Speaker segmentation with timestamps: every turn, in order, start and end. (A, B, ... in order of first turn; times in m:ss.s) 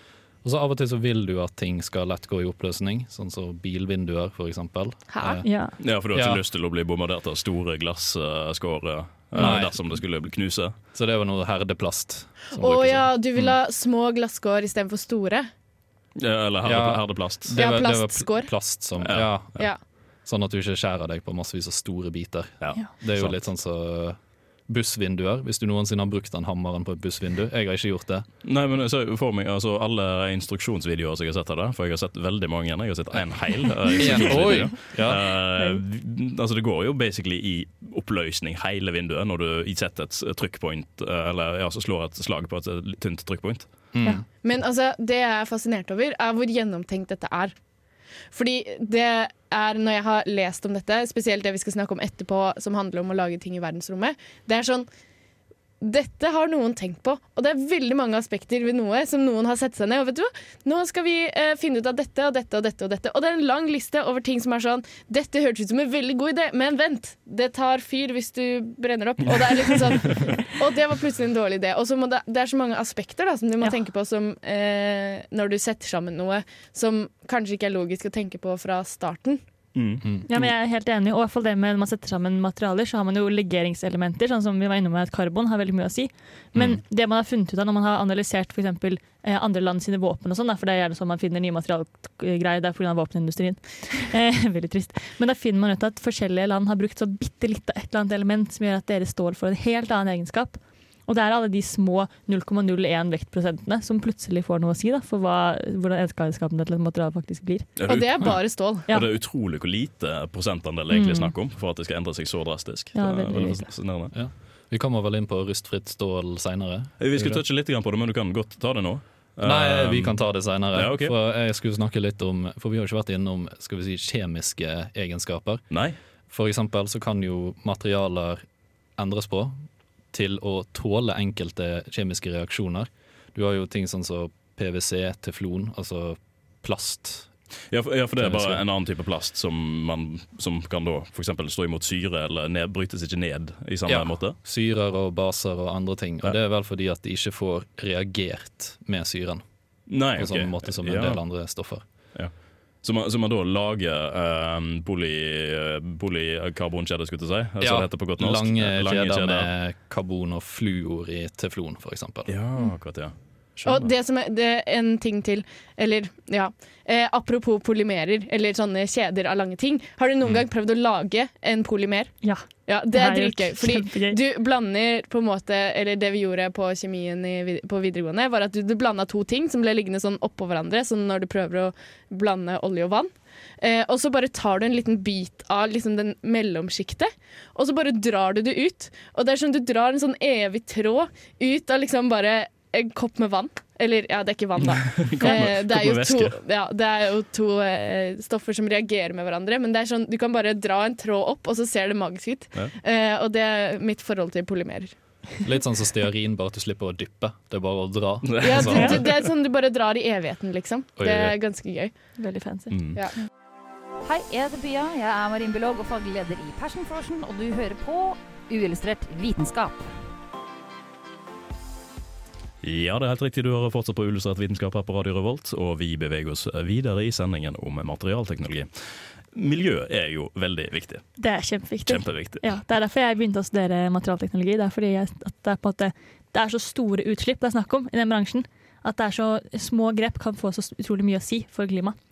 0:00.4-0:06.4 A
0:05.1-0:05.4 B
0:05.4-0:05.7 C
0:05.8-0:10.7 D
0:09.3-0:10.0 A
0:10.9-0:13.2 A
0:12.6-0:15.5 B
0:16.2-0:17.5 D
0:16.6-0:19.6 A
0:17.5-0:18.6 B
0:19.0-0:19.7 D
0:20.2-0:28.2 A
0:22.6-0:23.4 D
0:28.4-0:43.6 D
0:33.9-0:34.7 C
0:34.0-0:35.2 A
0:43.9-0:44.2 A
0:44.4-0:47.5 B
0:48.3-0:54.9 B
0:55.8-1:19.4 B
1:19.7-1:20.0 D
1:20.0-1:20.4 A
1:20.3-1:47.7 C
1:47.8-1:54.1 D
1:47.9-1:48.8 B
1:50.9-1:51.3 C
1:52.9-1:53.7 C
1:54.1-1:57.4 A
1:57.0-2:00.2 D
1:59.4-2:05.6 A
2:00.7-2:01.1 D
2:05.7-2:06.0 D
2:06.3-2:08.4 A
2:09.0-2:17.3 A
2:17.7-2:24.4 D
2:18.2-2:18.6 A
2:23.9-2:29.4 A
2:29.9-2:31.2 D
2:30.1-2:31.8 A
2:32.1-2:39.5 D
2:37.6-2:42.3 A
2:42.3-2:43.9 D
2:43.6-3:24.9 B
2:52.2-2:54.2 C
3:14.6-3:16.4 D
3:25.4-3:29.0 A
3:28.2-3:29.2 D
3:28.4-3:31.9 B
3:31.0-3:31.3 A
3:32.2-3:32.7 C
3:32.7-3:33.0 D
3:34.0-3:40.0 E
3:42.6-3:48.7 D
3:49.3-3:51.0 D
3:51.2-4:02.0 C
3:51.8-3:52.4 D